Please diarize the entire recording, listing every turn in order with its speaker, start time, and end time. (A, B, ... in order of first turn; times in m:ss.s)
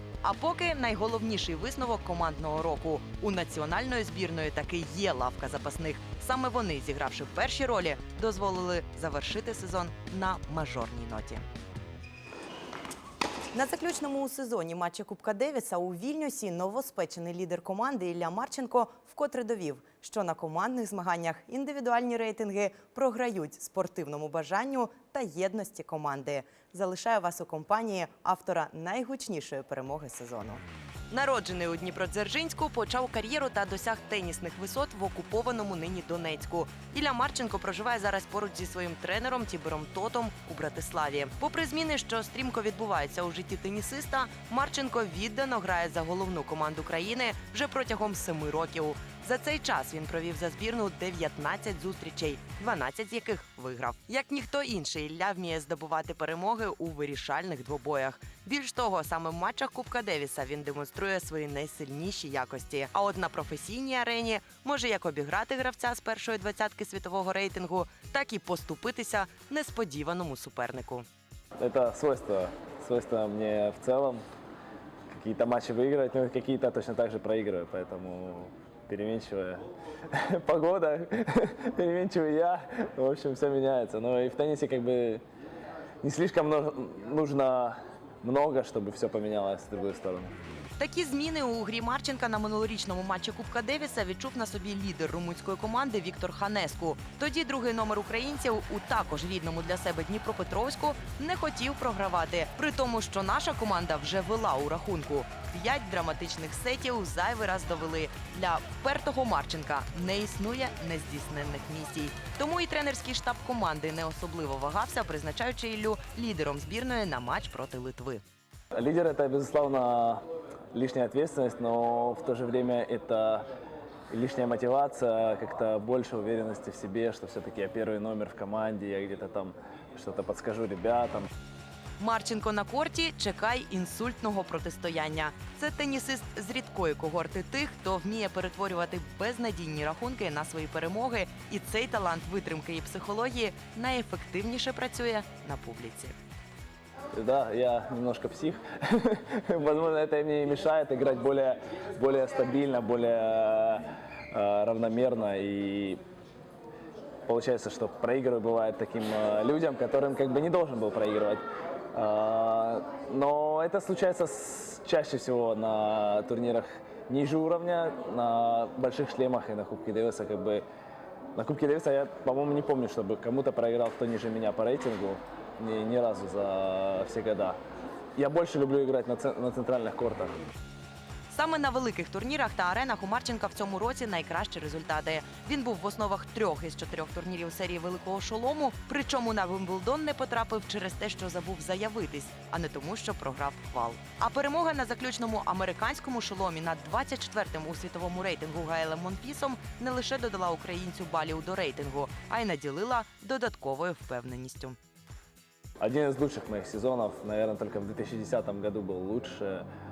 0:00.2-0:11.4 A
0:13.5-1:11.0 A
1:11.6-1:14.2 B
1:15.1-1:25.2 B
1:26.0-1:30.4 B
1:30.8-1:58.2 A
1:58.7-2:03.5 B
2:04.1-2:11.3 B
2:12.0-2:26.2 A
2:27.1-2:36.0 B
2:37.3-2:50.6 B
2:51.4-2:57.6 B
2:58.2-3:00.4 B
3:01.3-3:24.8 A
3:25.8-3:29.7 B